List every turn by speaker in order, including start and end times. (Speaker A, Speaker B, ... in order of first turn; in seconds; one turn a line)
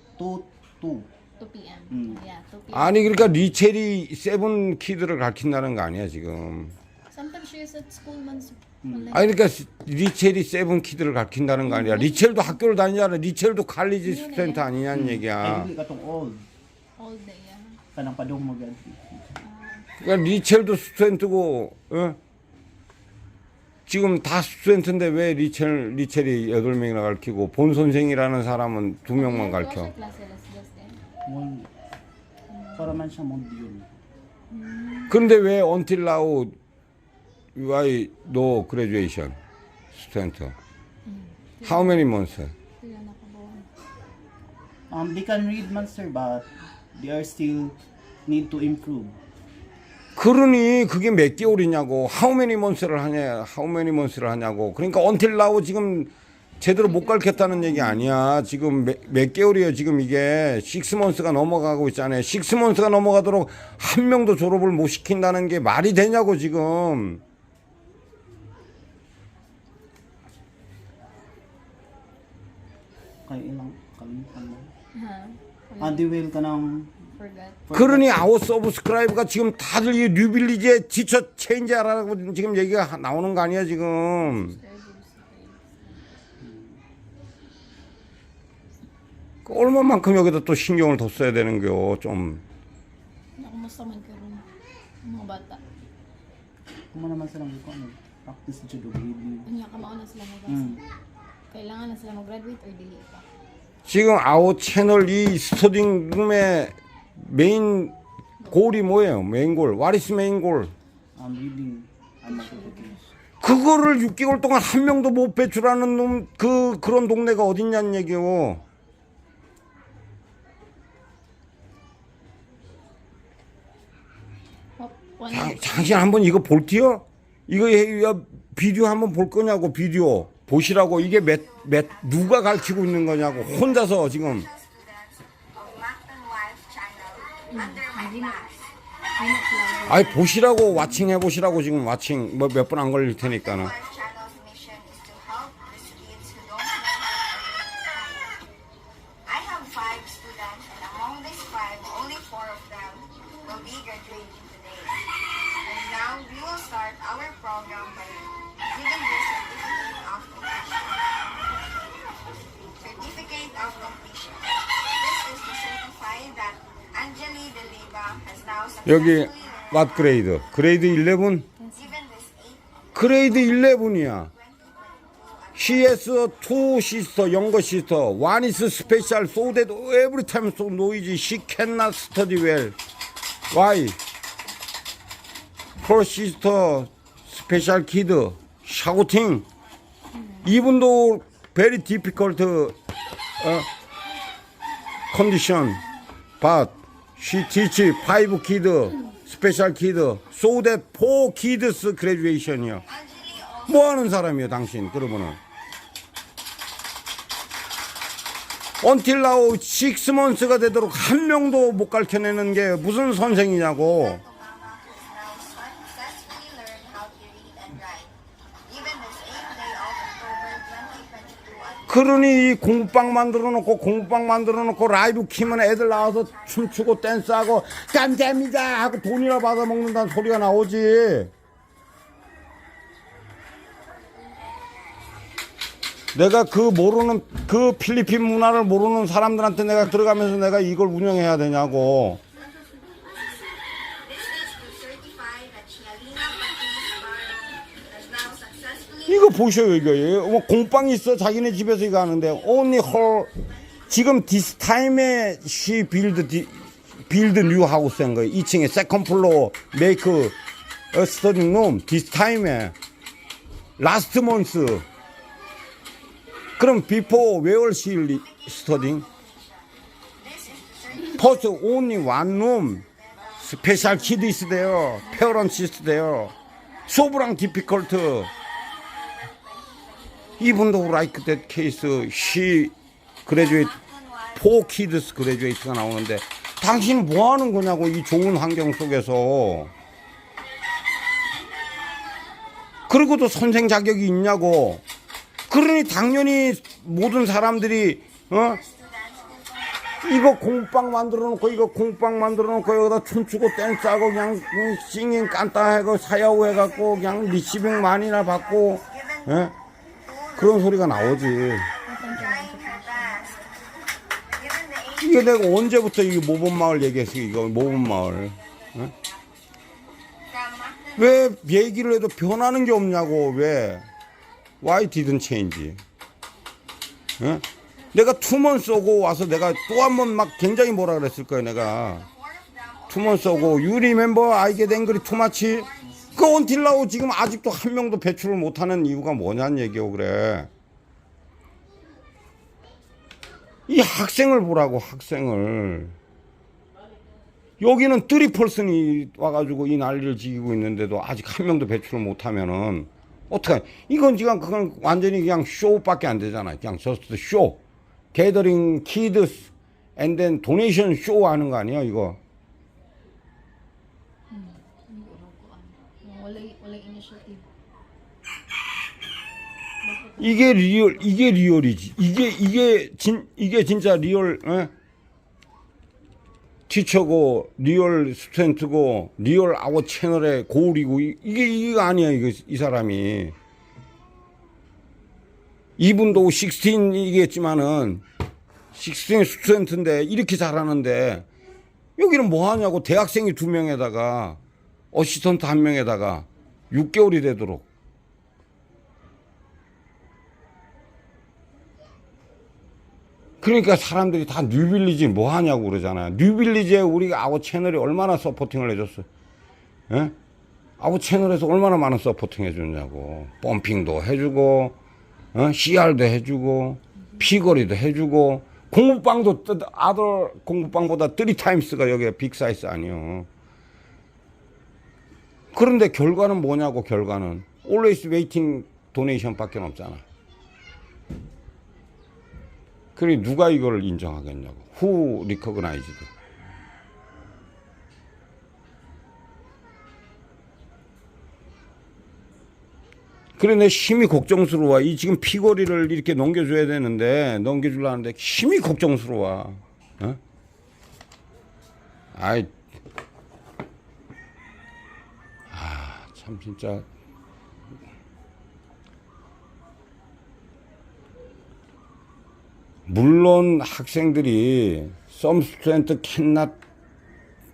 Speaker A: 0.2-1.1
Speaker B: 1.4-3.1
Speaker A: 1.9-2.2
Speaker C: 2.7-6.7
Speaker B: 7.1-9.4
Speaker A: 8.8-9.2
Speaker C: 9.1-15.7
Speaker B: 11.6-12.6
Speaker B: 14.0-14.7
Speaker A: 14.9-16.4
Speaker B: 17.0-17.8
Speaker A: 17.9-19.2
Speaker B: 19.4-19.9
Speaker C: 20.0-22.2
Speaker C: 23.9-29.9
Speaker B: 29.1-31.0
Speaker A: 31.2-31.7
Speaker B: 32.5-32.9
Speaker A: 32.7-33.9
Speaker B: 34.5-35.2
Speaker C: 35.1-36.5
Speaker C: 37.5-39.4
Speaker C: 39.9-40.5
Speaker B: 41.0-42.1
Speaker C: 41.6-42.5
Speaker B: 42.8-43.7
Speaker A: 44.9-49.2
Speaker C: 50.1-67.2
Speaker B: 56.7-58.1
Speaker A: 73.2-74.7
Speaker B: 74.9-76.1
Speaker A: 75.8-77.0
Speaker B: 77.1-77.6
Speaker A: 77.7-78.3
Speaker C: 77.7-84.6
Speaker B: 84.2-86.1
Speaker A: 86.4-86.8
Speaker C: 89.4-92.4
Speaker B: 93.4-94.5
Speaker B: 95.0-95.6
Speaker A: 96.9-99.5
Speaker B: 99.4-100.8
Speaker A: 100.5-100.8
Speaker B: 101.5-103.2
Speaker C: 103.8-107.9
Speaker C: 108.5-110.7
Speaker A: 111.2-113.1
Speaker B: 112.3-113.0
Speaker C: 113.4-118.6
Speaker B: 124.8-126.1
Speaker C: 125.3-134.5
Speaker D: 130.9-138.6
Speaker B: 137.5-138.5
Speaker B: 139.2-141.0
Speaker C: 139.9-143.7
Speaker D: 143.2-148.4
Speaker D: 149.2-155.1
Speaker D: 155.6-161.3
Speaker D: 162.6-170.2
Speaker C: 168.8-171.5
Speaker B: 171.6-171.9
Speaker D: 171.7-173.2
Speaker C: 172.9-174.3
Speaker D: 174.3-175.9
Speaker C: 175.5-182.8
Speaker C: 183.5-184.0
Speaker C: 185.8-189.4
Speaker B: 190.2-190.4
Speaker C: 190.4-192.8
Speaker C: 193.4-193.7
Speaker C: 195.1-195.8
Speaker C: 196.4-202.8
Speaker D: 202.9-203.7
Speaker C: 203.6-205.4
Speaker C: 208.8-214.2
Speaker D: 213.4-218.1
Speaker D: 218.7-222.5
Speaker C: 221.9-231.3
Speaker D: 225.8-227.0
Speaker C: 236.1-242.2
Speaker D: 244.0-249.3
Speaker C: 249.1-253.3
Speaker C: 253.9-260.4
Speaker C: 260.9-262.7
Speaker C: 263.8-264.8
Speaker C: 266.6-269.1
Speaker D: 268.2-269.5
Speaker D: 270.2-271.4
Speaker C: 271.1-272.9
Speaker D: 273.0-274.1
Speaker C: 273.4-276.3
Speaker B: 275.0-275.6
Speaker C: 276.9-278.3
Speaker D: 278.3-281.2
Speaker C: 280.4-282.7
Speaker C: 283.2-283.8
Speaker D: 283.3-284.7
Speaker C: 284.3-289.7
Speaker C: 292.9-294.8
Speaker C: 295.5-298.6
Speaker D: 298.6-300.0
Speaker C: 300.0-309.5
Speaker D: 306.5-309.3
Speaker D: 310.0-311.3
Speaker C: 310.3-311.7
Speaker B: 311.9-313.4
Speaker D: 312.1-315.3
Speaker C: 315.0-318.9
Speaker D: 318.9-319.3
Speaker D: 320.3-321.1
Speaker C: 320.9-323.8
Speaker C: 324.6-325.8
Speaker C: 327.2-332.1
Speaker D: 331.6-336.5
Speaker C: 332.9-340.5
Speaker C: 343.7-345.9
Speaker C: 347.6-357.6
Speaker C: 358.1-362.2
Speaker B: 364.3-367.4
Speaker B: 369.8-370.4
Speaker C: 370.2-374.7
Speaker C: 376.7-383.4
Speaker C: 385.8-388.0
Speaker C: 388.7-391.3
Speaker C: 392.0-394.4
Speaker C: 394.9-397.6
Speaker C: 403.4-409.1
Speaker C: 409.9-410.1
Speaker C: 410.8-414.8
Speaker C: 415.3-423.3
Speaker C: 425.5-430.0
Speaker C: 432.9-436.1
Speaker C: 443.4-450.2
Speaker C: 452.1-452.5
Speaker C: 455.5-456.8
Speaker C: 462.9-466.5